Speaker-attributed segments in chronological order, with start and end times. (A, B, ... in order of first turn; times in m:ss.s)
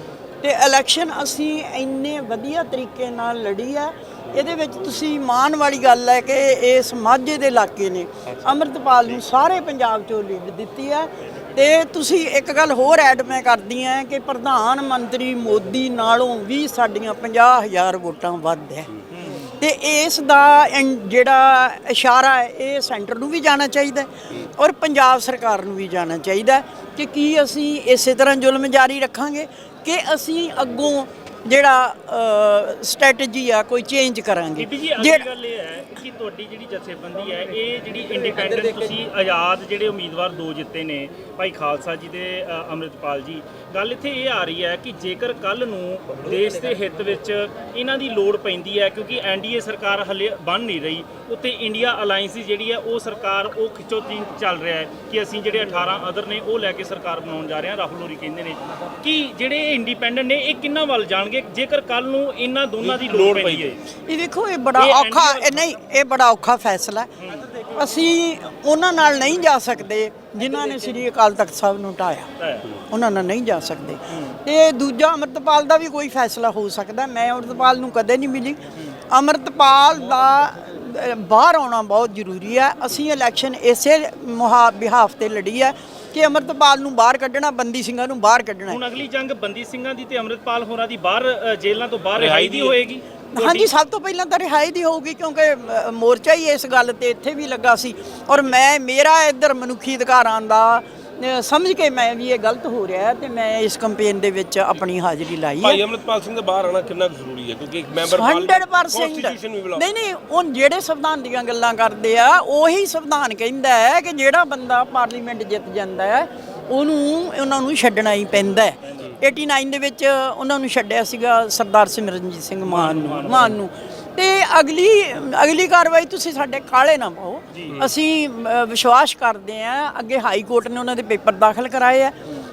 0:00.4-0:19.0 A
0:19.1-0:19.5 B
0:19.6-0:35.3 A
0:34.6-1:03.8 B
1:02.8-1:03.7 C
1:04.1-1:07.1 A
1:04.7-1:05.6 B
1:07.2-1:07.5 B
1:07.7-1:12.3 A
1:10.5-1:11.0 B
1:12.4-1:12.7 B
1:12.9-1:28.8 A
1:14.1-1:14.4 B
1:28.7-1:33.7 B
1:32.2-1:32.8 C
1:33.3-1:45.8 A
1:45.6-1:49.8 C
1:48.1-2:12.1 A
1:58.8-1:59.2 B
2:02.6-2:03.6 B
2:07.5-2:07.8 B